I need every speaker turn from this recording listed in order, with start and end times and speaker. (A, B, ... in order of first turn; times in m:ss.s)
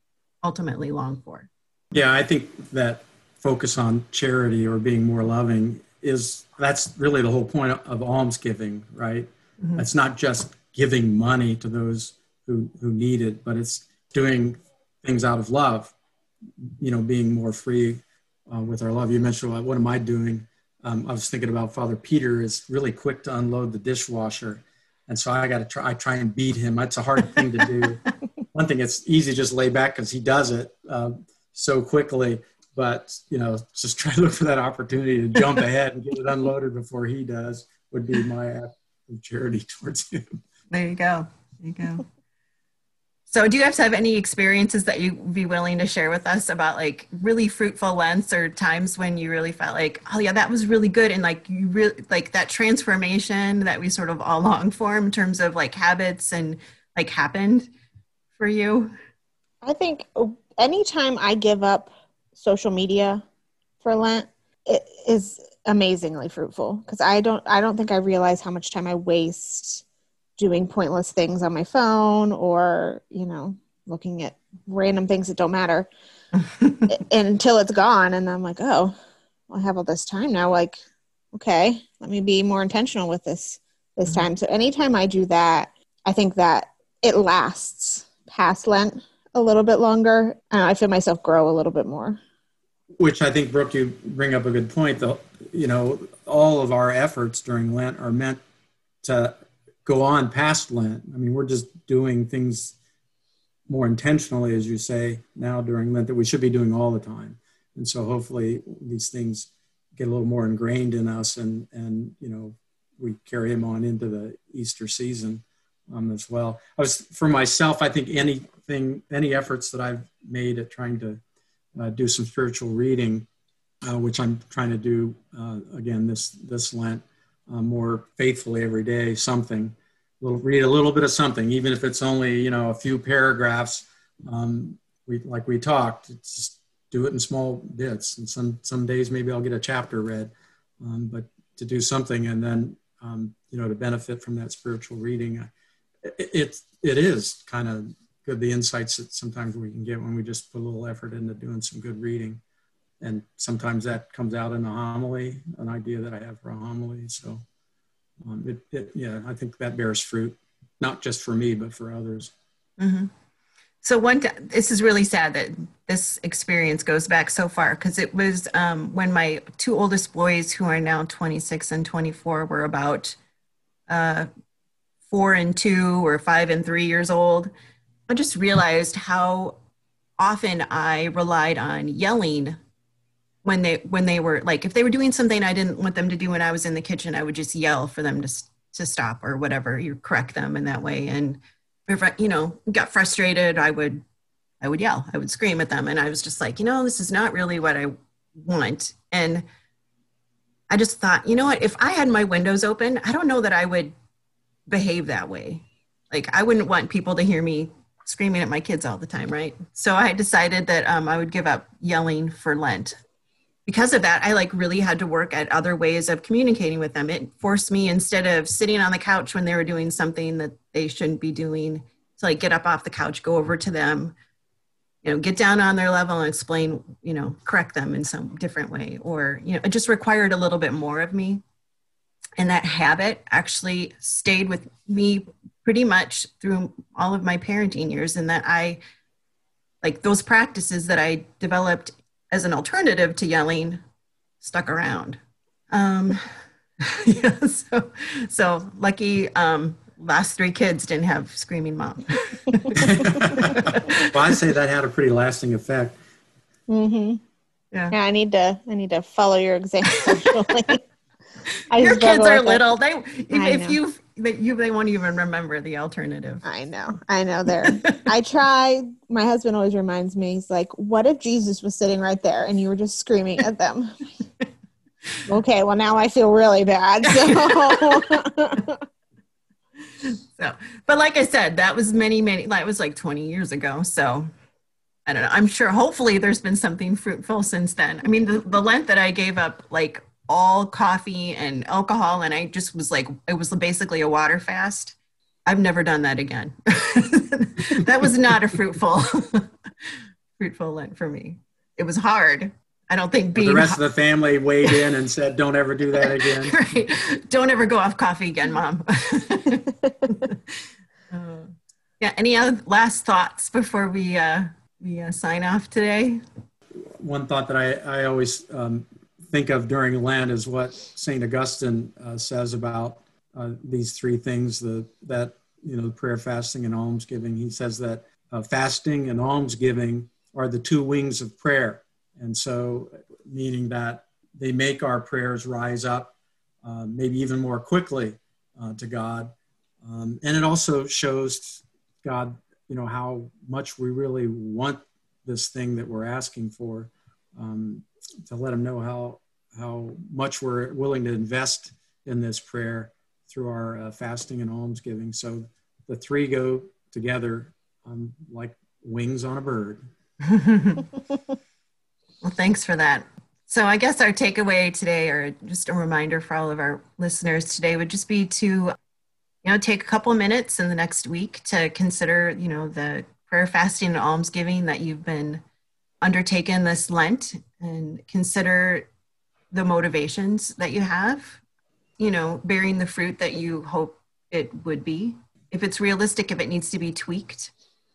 0:00.4-0:01.5 A
0:01.9-0:15.9 B
0:16.8-0:40.4 B
0:40.7-0:42.0 A
0:43.3-0:57.7 A
0:58.4-0:58.9 A
0:59.6-1:03.2 C
1:03.8-1:09.8 C
1:10.4-1:15.9 C
1:16.9-1:18.9 C
1:19.5-1:20.8 C
1:21.3-1:32.2 C
1:33.0-1:38.4 B
1:39.0-1:42.8 B
1:43.7-2:01.2 B
2:01.8-2:03.3 B
2:03.8-2:25.5 B
2:26.0-2:32.4 B
2:33.0-2:37.4 B
2:38.2-2:42.3 B
2:42.8-2:43.1 A
2:43.8-2:53.2 A
2:53.9-2:54.3 A
2:55.1-2:57.5 A
2:58.1-2:59.6 A
3:00.2-3:02.6 A
3:03.4-3:14.0 A
3:14.6-3:19.4 A
3:20.7-3:23.9 A
3:24.7-3:33.0 A
3:33.7-3:44.1 A
3:45.0-3:51.4 A
3:52.4-3:58.8 A
3:59.8-4:03.8 A
4:04.4-4:05.2 A
4:05.7-4:06.3 A
4:06.8-4:14.1 A
4:12.7-4:16.0 B
4:16.7-4:17.2 C
4:17.9-4:20.8 C
4:21.7-4:22.6 C
4:21.8-4:26.4 A
4:23.3-4:23.8 C
4:26.4-4:34.1 C
4:35.3-4:38.8 C
4:37.1-4:38.1 A
4:40.0-4:44.3 A
4:45.1-4:55.0 A
4:55.5-4:59.5 A
5:00.4-5:03.8 A
5:03.4-5:06.6 B
5:06.0-5:10.6 A
5:11.1-5:16.2 A
5:17.0-5:59.8 B
6:00.2-6:00.9 A
6:02.2-6:08.8 A
6:09.4-6:15.4 A
6:16.0-6:18.9 A
6:19.5-6:21.4 A
6:22.0-6:27.5 A